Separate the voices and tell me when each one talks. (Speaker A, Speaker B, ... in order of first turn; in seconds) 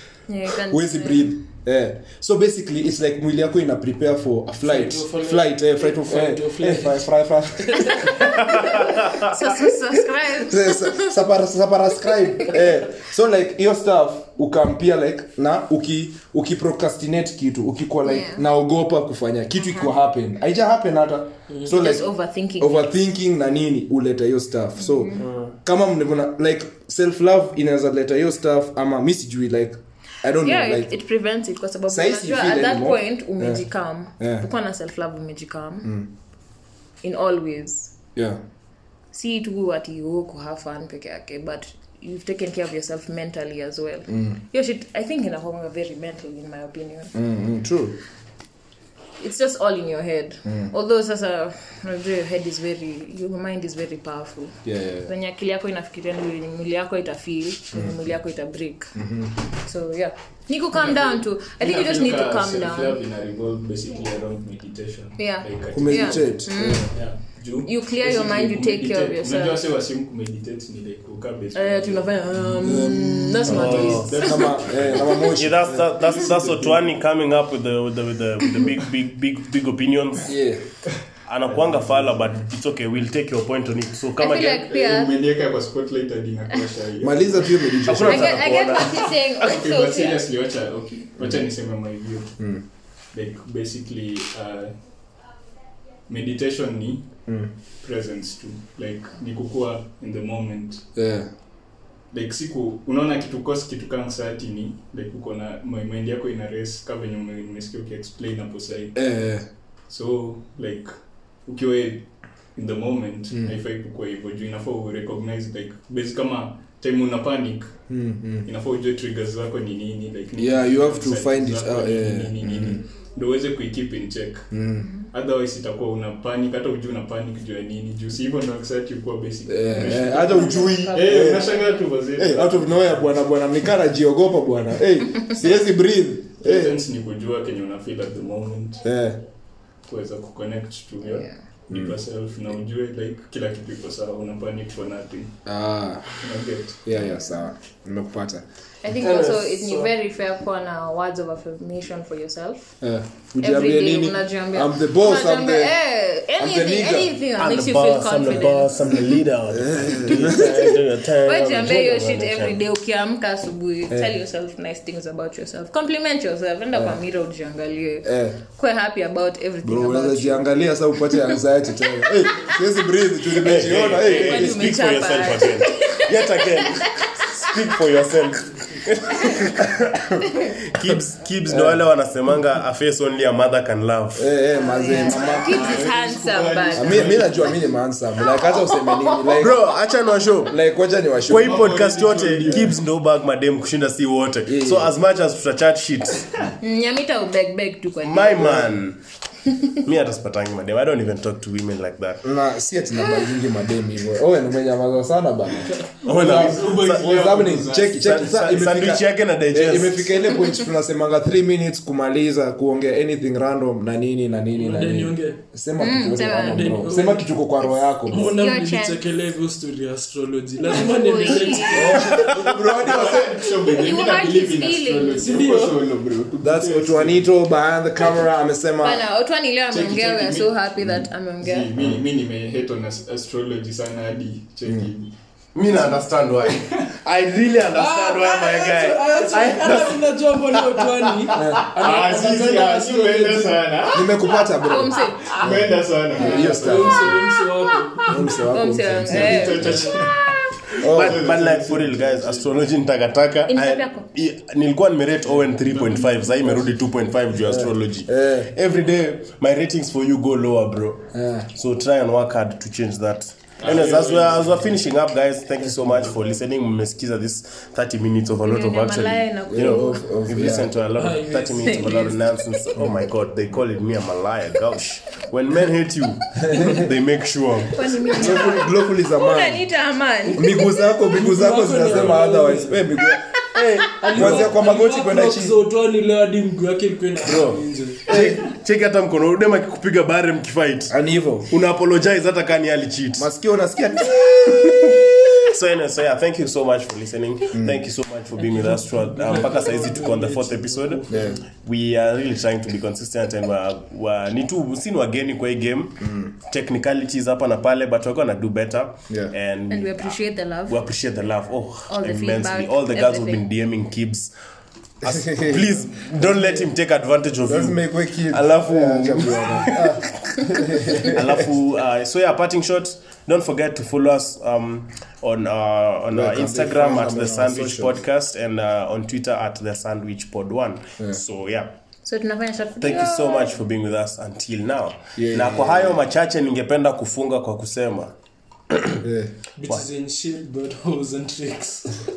Speaker A: 0.3-1.3, 7.9-11.3, 18.1-18.4, 21.7-22.8, 24.8-25.2, 30.4-36.0, 37.0-37.9, 39.1-47.1, 49.2-59.0, 59.6-63.0, 65.2-66.9, 67.7-69.6, 71.5-74.5, 84.2-85.1, 88.0-90.3, 129.8-131.8, 141.0-141.3, 147.0-147.3, 148.8-152.7, 153.4-159.2, 161.2-170.5, 174.1-176.6, 184.6-187.2, 196.6-198.7, 215.8-216.9, 218.1-219.0, 220.6-222.1, 223.6-225.3, 228.8-231.7, 244.6-245.4, 248.0-249.9, 253.5-254.1, 268.5-270.1, 271.6-272.0, 277.7-280.9, 309.7-310.8, 311.9-313.4, 332.1-333.5
Speaker B: 0.6-8.3, 10.3-22.1, 22.6-30.9, 31.9-33.6, 34.2-34.5, 35.8-36.1, 44.1-44.4, 47.1-48.0, 50.5-50.7, 54.6-55.1, 59.0-59.4, 65.7-66.9, 72.6-76.8, 80.2-80.6, 81.9-82.3, 87.0-88.5, 91.2-91.4, 92.4-92.6, 101.0-101.3, 109.0-109.4, 117.9-118.5, 120.4-122.8, 124.5-124.9, 129.5-131.5, 132.2-136.8, 138.8-139.2, 145.5-146.2, 146.8-148.4, 152.8-155.8, 156.4-157.1, 159.5-160.7, 163.9-164.2, 166.7-167.0, 168.1-168.4, 169.6-174.7, 181.5-181.8, 184.2-185.8, 186.8-189.6, 190.5-191.8, 194.5-194.9, 198.4-198.7, 202.2-218.3, 221.7-223.5, 226.4-229.1, 234.7-234.9, 241.3-241.6, 243.9-247.2, 248.1-249.8, 250.8-251.3, 257.4-258.5, 261.1-261.5, 269.5-270.7, 276.4-276.9, 278.1-279.6, 280.3-283.3, 284.1-285.6, 288.1-288.4, 290.9-291.5, 293.2-295.5, 297.5-297.9, 301.1-301.4, 306.0-306.3, 309.1-309.4, 315.0-315.7, 317.5-321.5, 326.1-328.0, 335.2-336.0, 339.0-339.3
Speaker C: 4.6-7.0, 7.6-8.1, 149.1-149.9, 214.6-215.4, 216.4-217.3, 218.1-222.2, 225.2-225.8, 237.7-243.7, 246.2-248.2, 249.5-250.0, 271.0-272.2, 281.1-282.9, 283.9-288.0, 298.4-301.4, 316.4-316.7, 339.6-342.0
Speaker D: 8.6-9.3, 25.2-25.6, 73.5-74.2, 75.2-80.3, 81.3-84.7, 87.8-89.5, 157.4-162.6, 173.3-184.3, 189.3-190.6, 191.3-196.5, 198.0-199.0, 199.7-202.2, 206.1-207.2, 207.8-210.2, 221.9-222.5, 235.6-241.6, 250.8-277.9, 283.5-284.5, 287.2-291.0, 291.5-293.3, 294.4-301.0, 301.6-314.3, 315.0-331.7, 332.8-338.1
Speaker E: 60.8-72.3, 73.8-75.2, 84.5-88.1, 88.6-92.4, 93.1-94.8, 96.1-100.9, 102.1-109.0, 109.9-110.9, 111.5-117.8, 118.5-124.5, 125.0-133.3, 136.4-138.8, 139.8-145.4, 146.2-146.8, 185.1-187.6, 191.3-192.7, 206.1-208.2, 222.3-227.2, 229.7-235.1, 235.7-236.9, 241.8-244.6, 245.2-247.2, 249.1-250.3, 250.8-252.5, 255.7-256.5, 263.6-264.7